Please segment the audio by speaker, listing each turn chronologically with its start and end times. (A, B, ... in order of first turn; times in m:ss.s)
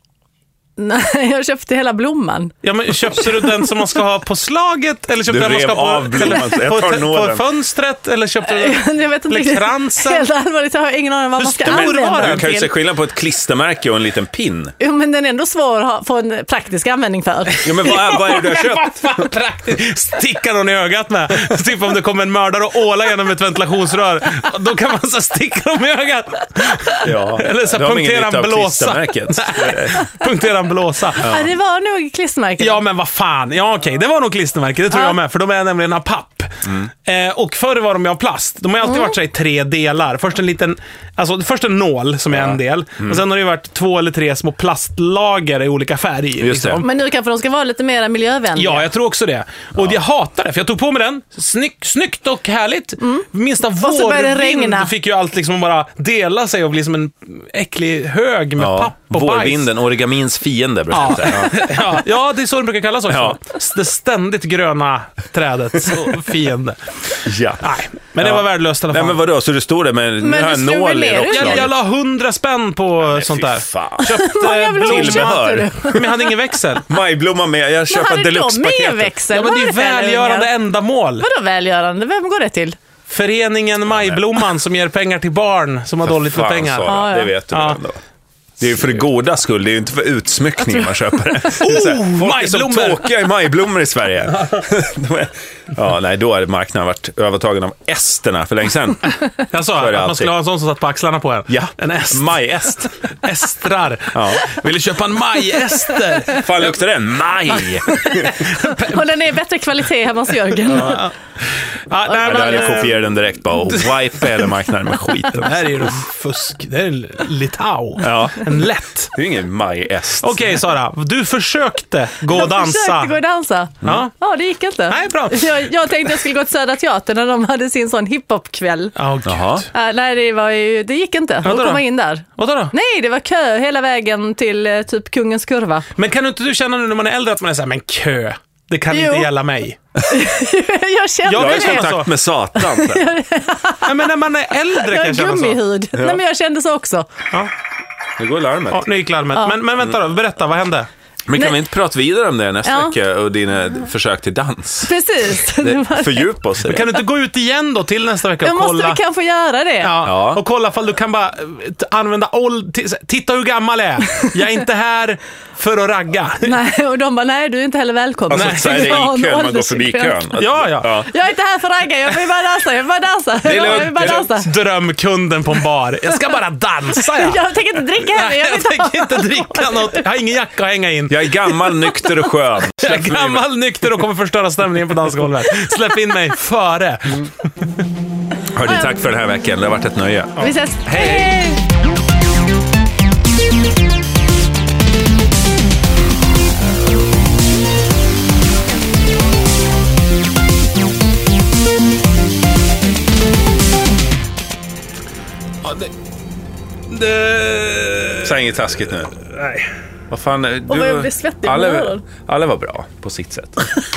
0:00.8-0:03.7 A
0:02.6-0:10.3 B
0:05.3-0:07.4 C
0:08.5-0:12.7 A
0:11.4-0:12.5 B
0:11.6-0:14.7 C
0:14.8-0:18.4 A
0:17.6-0:19.3 C
0:17.7-0:31.4 B
0:27.0-0:30.0 C
0:31.1-0:32.8 A
0:32.6-0:46.9 B
0:34.9-0:35.2 A
0:38.8-0:39.2 A
0:42.3-0:43.2 C
0:46.4-0:46.8 C
0:46.8-0:48.9 A
0:48.5-0:59.7 B
0:53.0-0:54.9 A
0:58.6-1:01.8 C
1:00.9-1:09.2 B
1:03.1-1:03.4 C
1:07.2-1:11.7 C
1:10.2-1:11.7 A
1:11.2-1:16.9 B
1:13.0-1:16.0 C
1:14.0-1:16.4 A
1:16.9-1:19.1 C
1:17.9-1:20.5 A
1:19.3-1:21.2 B
1:21.2-1:22.8 A
1:23.1-1:27.0 B
1:23.9-1:24.4 C
1:26.0-1:28.0 C
1:26.8-1:27.4 A
1:27.5-1:27.8 B
1:28.6-1:39.1 C
1:31.5-1:33.1 B
1:34.3-1:34.6 B
1:39.5-1:46.5 B
1:39.7-1:40.3 C
1:41.5-1:42.8 C
1:44.1-1:44.5 C
1:46.3-1:48.4 C
1:47.9-1:51.1 A
1:48.1-1:49.0 B
1:50.6-1:53.0 B
1:50.7-1:51.0 C
1:52.1-1:52.9 A
1:52.2-1:55.9 C
1:53.7-1:53.9 B
1:55.3-1:59.1 B
1:58.0-2:00.6 C
2:00.2-2:03.2 B
2:02.3-2:08.9 A
2:03.8-2:04.1 B
2:04.9-2:05.7 B
2:09.0-2:09.7 B
2:09.2-2:09.6 C
2:09.7-2:15.8 A
2:11.4-2:12.7 B
2:16.0-2:19.8 B
2:18.9-2:19.3 A
2:20.1-2:24.1 A
2:21.2-2:22.1 B
2:21.3-2:23.1 C
2:23.8-2:25.6 B
2:24.7-2:27.1 A
2:25.9-2:26.2 C
2:28.2-2:28.8 C
2:28.7-2:30.9 B
2:31.3-2:34.9 C
2:32.6-2:32.9 A
2:34.8-2:36.4 A
2:35.6-2:37.0 C
2:36.6-2:39.0 B
2:38.4-2:40.0 A
2:39.8-2:46.6 B
2:40.0-2:40.4 C
2:46.4-2:50.3 A
2:48.3-2:51.1 C
2:48.3-2:49.0 B
2:50.4-2:51.0 B
2:50.8-2:54.5 A
2:53.4-2:54.5 C
2:53.6-3:01.4 B
2:57.0-3:00.0 A
3:01.1-3:03.5 C
3:02.8-3:07.3 B
3:08.5-3:11.4 C
3:10.4-3:11.6 A
3:25.6-3:25.9 B
3:26.9-3:28.3 B
3:28.2-3:29.1 C
3:29.3-3:29.7 B
3:30.1-3:33.8 C
3:30.7-3:32.0 A